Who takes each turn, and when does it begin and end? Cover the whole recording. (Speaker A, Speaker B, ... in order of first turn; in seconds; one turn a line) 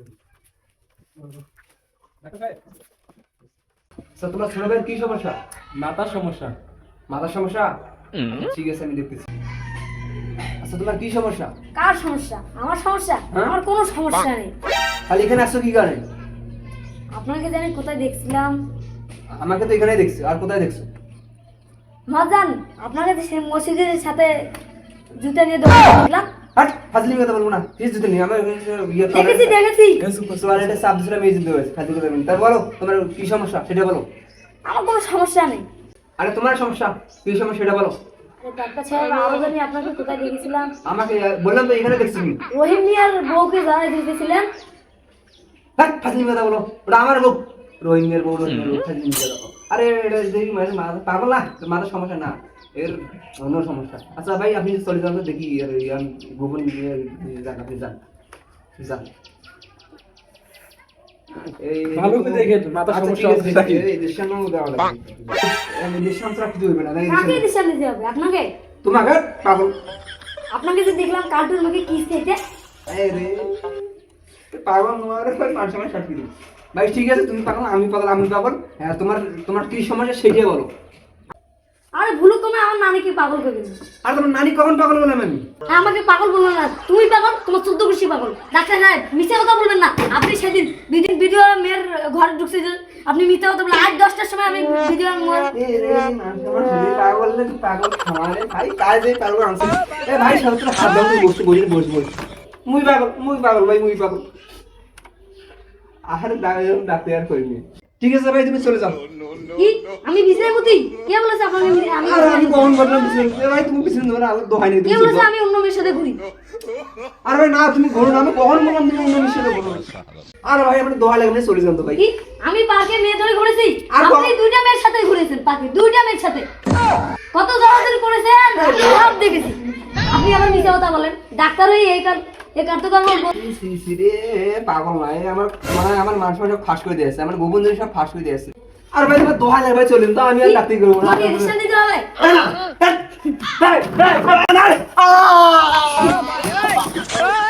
Speaker A: 2.2-2.5
Speaker B: 4.2-5.4
Speaker A: 5.8-6.5
Speaker B: 7.1-7.7
Speaker B: 8.3-9.3
Speaker B: 10.6-11.5
Speaker C: 11.7-14.5
Speaker B: 13.3-13.6
Speaker B: 15.1-16.0
Speaker C: 17.1-18.6
Speaker B: 19.4-20.9
Speaker C: 22.1-24.5
Speaker C: 25.1-26.3
Speaker B: 26.6-29.6
Speaker C: 29.1-30.0
Speaker A: 30.0-30.7
Speaker B: 30.3-34.0
Speaker C: 34.6-35.7
Speaker B: 36.2-37.9
Speaker C: 38.4-40.7
Speaker B: 40.8-42.4
Speaker C: 42.5-44.5
Speaker B: 45.8-58.0
Speaker B: 58.8-59.1
Speaker B: 61.4-67.4
Speaker A: 61.9-63.8
Speaker C: 67.1-68.5
Speaker B: 68.8-69.7
Speaker C: 70.5-72.4
Speaker B: 72.9-73.7
Speaker B: 74.5-80.7
Speaker C: 82.0-83.8
Speaker B: 84.0-85.5
Speaker C: 85.7-95.5
Speaker B: 95.5-102.1
Speaker B: 102.7-104.2
Speaker B: 106.1-109.0
Speaker C: 109.5-112.8
Speaker B: 112.0-115.3
Speaker C: 114.8-116.2
Speaker B: 117.2-119.8
Speaker B: 120.5-122.0
Speaker C: 121.9-126.5
Speaker B: 123.9-124.3
Speaker C: 127.3-133.3
Speaker B: 128.6-129.2
Speaker B: 133.3-141.5
Speaker C: 140.4-142.1
Speaker B: 142.2-146.1